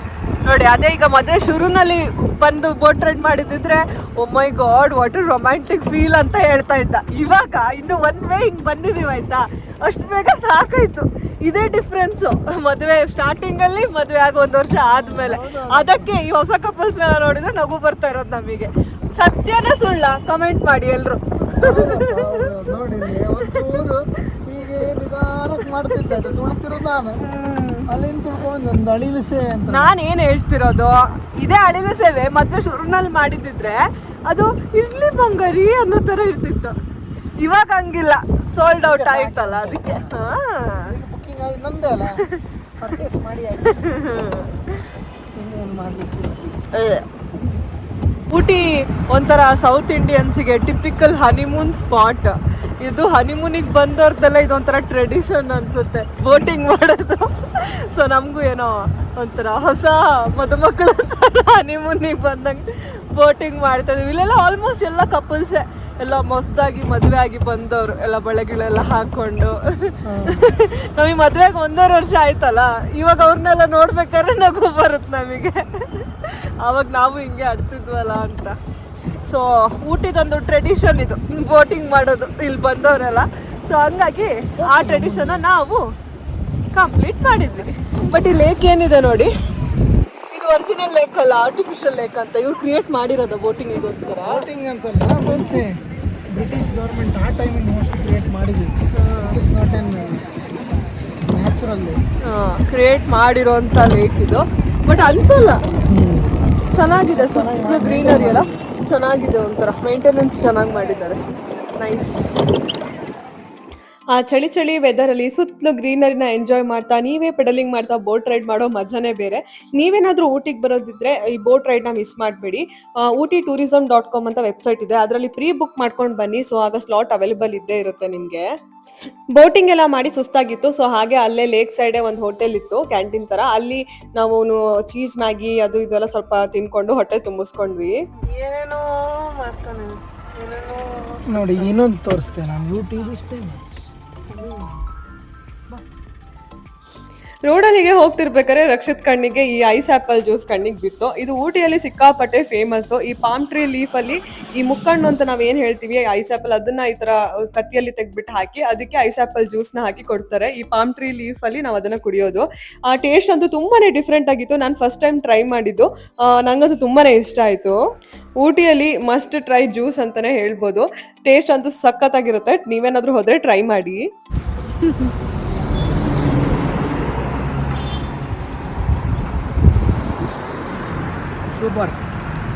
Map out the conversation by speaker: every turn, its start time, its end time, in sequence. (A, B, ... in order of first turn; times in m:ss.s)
0:00.4-0:23.8 A
0:14.8-0:16.2 B
0:21.5-0:27.2 B
0:25.6-0:26.3 A
0:27.2-0:27.9 A
0:27.9-0:30.0 B
0:29.7-0:36.8 A
0:37.4-0:41.0 A
0:38.8-0:40.1 B
0:40.9-0:42.2 B
0:42.8-0:44.0 B
0:43.6-0:44.7 A
0:45.3-0:46.6 B
0:46.7-0:47.0 A
0:48.3-1:18.6 A
1:10.0-1:10.5 B
1:19.2-1:25.8 A
1:24.6-1:25.4 B
1:26.7-1:29.3 A
1:30.3-1:34.4 A
1:34.3-1:35.8 B
1:35.3-1:35.5 A
1:36.3-1:38.7 B
1:38.9-1:39.4 A
1:39.3-1:40.3 B
1:41.2-1:42.0 B
1:42.2-1:45.6 A
1:45.9-1:46.4 B
1:46.7-1:51.2 A
1:47.1-1:48.6 B
1:51.8-1:52.6 A
1:54.1-2:08.5 A
2:09.3-2:21.8 A
2:21.2-2:23.8 B
2:24.3-2:24.7 A
2:27.4-2:47.8 A
2:48.4-2:54.1 A
2:54.8-2:55.1 A
3:01.5-3:02.0 B